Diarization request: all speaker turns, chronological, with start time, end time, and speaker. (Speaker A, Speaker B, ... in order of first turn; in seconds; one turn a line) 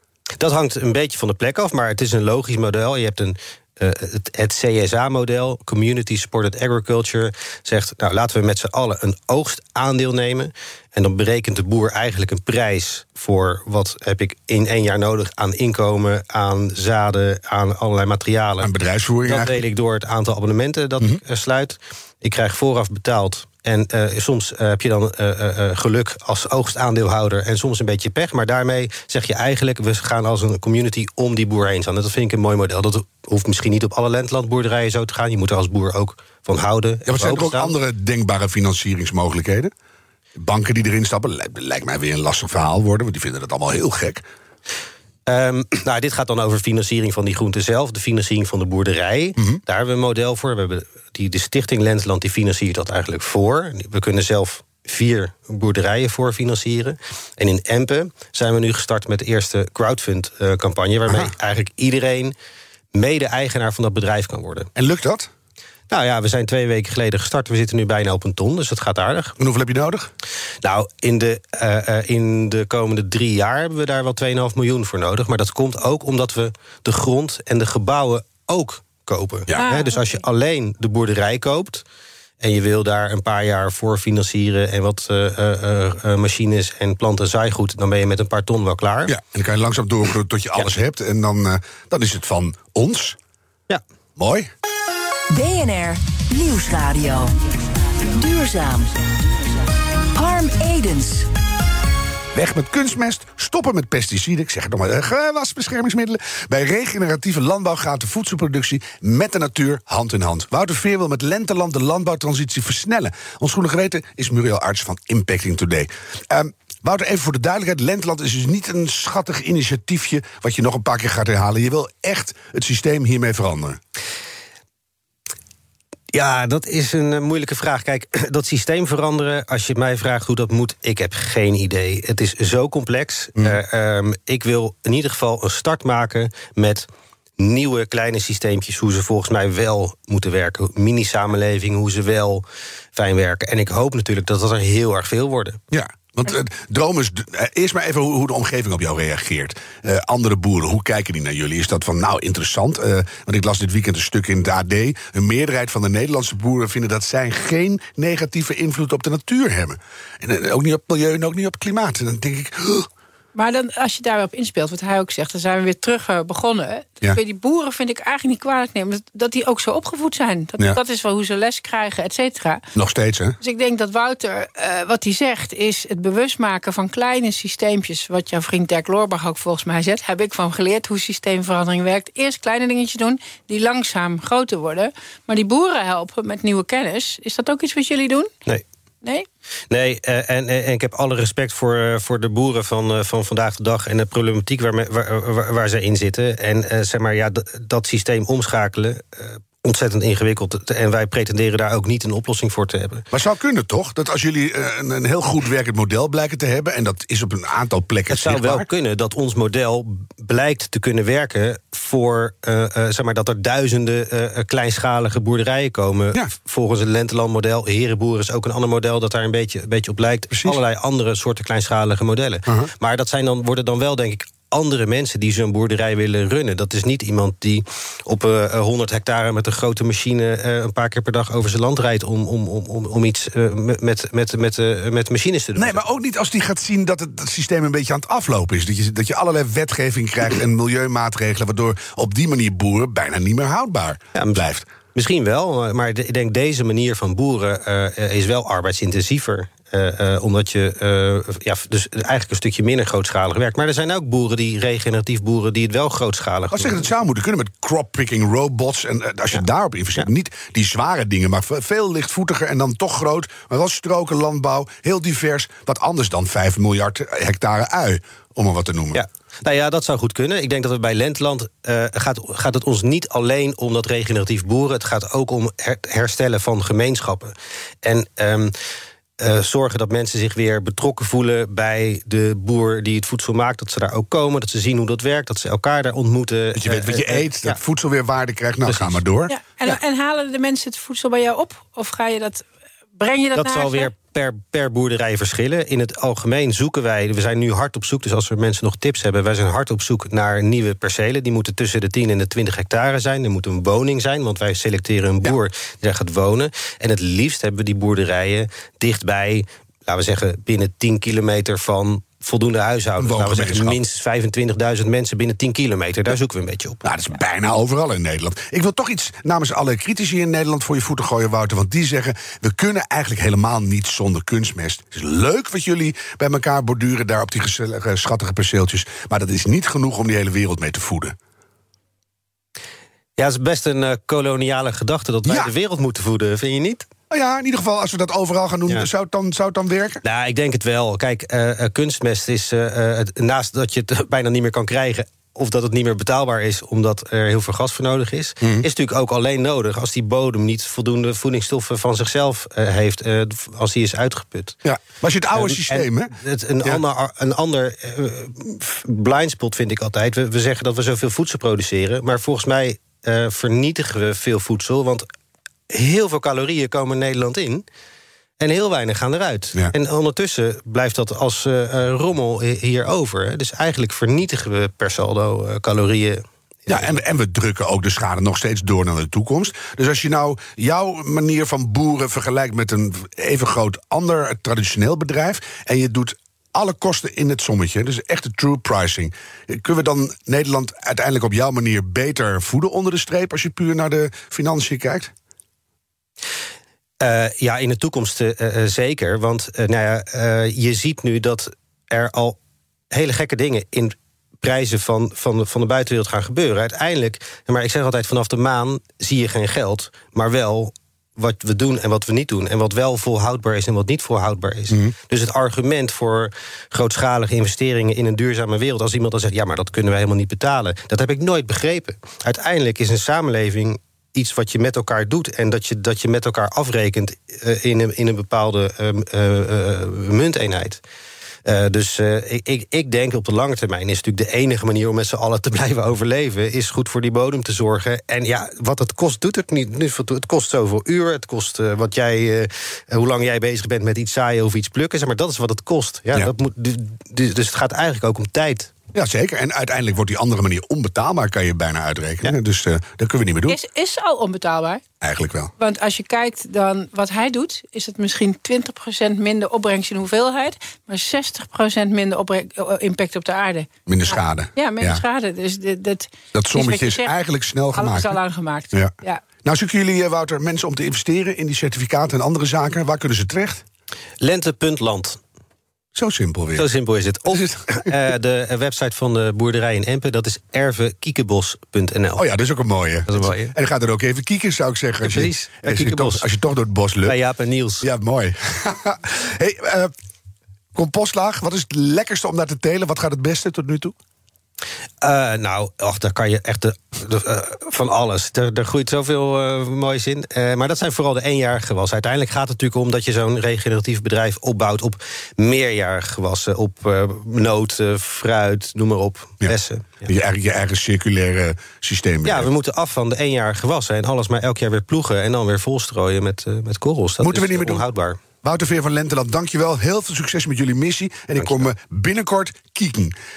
Speaker A: 0.4-18.7
Speaker B: 18.6-19.6
Speaker A: 19.2-37.7
Speaker B: 37.0-39.7
Speaker B: 40.4-44.2
Speaker A: 45.3-62.3
Speaker A: 62.9-64.7
Speaker B: 64.8-65.3
Speaker A: 65.9-69.3
Speaker B: 69.4-70.1
Speaker A: 70.6-81.8
Speaker C: 79.6-79.9
Speaker A: 82.4-89.1
Speaker B: 89.1-93.2
Speaker B: 94.2-94.5
Speaker D: 95.3-97.4
Speaker D: 98.1-99.2
Speaker D: 100.1-101.3
Speaker B: 102.3-123.8
Speaker A: 126.1-145.6
Speaker B: 145.7-162.9
Speaker C: 163.3-172.6
Speaker B: 172.7-173.4
Speaker C: 173.4-188.3
Speaker A: 189.7-203.0
Speaker B: 203.1-208.7
Speaker A: 208.1-235.8
Speaker B: 220.3-220.6
Speaker B: 235.6-244.7
Speaker A: 244.1-256.8
Speaker B: 256.5-269.0
Speaker A: 268.9-278.5
Speaker A: 279.2-287.6
Speaker B: 286.6-289.3
Speaker A: 288.6-289.0
Speaker C: 289.3-292.4
Speaker C: 292.9-293.9
Speaker A: 293.3-316.8
Speaker B: 313.0-313.8
Speaker B: 316.8-331.1
Speaker A: 333.2-336.9
Speaker B: 335.2-335.5
Speaker B: 337.1-340.0
Speaker A: 340.0-354.6
Speaker B: 348.4-348.6
Speaker B: 354.6-356.1
Speaker A: 355.3-365.1
Speaker A: 365.7-367.6
Speaker A: 368.4-377.0
Speaker B: 376.7-395.1
Speaker A: 397.0-402.4
Speaker A: 402.9-430.8
Speaker A: 431.4-448.7
Speaker B: 448.9-453.6
Speaker C: 453.5-454.8
Speaker B: 455.0-455.5
Speaker C: 455.6-467.1
Speaker B: 463.9-465.0
Speaker B: 466.3-468.1
Speaker C: 467.7-469.2
Speaker B: 469.4-473.6
Speaker A: 474.2-475.2
Speaker B: 475.9-476.6
Speaker A: 476.5-482.2
Speaker B: 477.3-477.9
Speaker B: 482.2-487.1
Speaker A: 483.1-483.5
Speaker A: 485.0-486.2
Speaker A: 487.0-487.9
Speaker B: 487.8-489.9
Speaker B: 490.7-493.9
Speaker A: 495.0-510.1
Speaker B: 510.1-512.5
Speaker A: 512.2-518.2
Speaker B: 517.2-517.8
Speaker B: 518.4-523.1
Speaker A: 521.4-521.7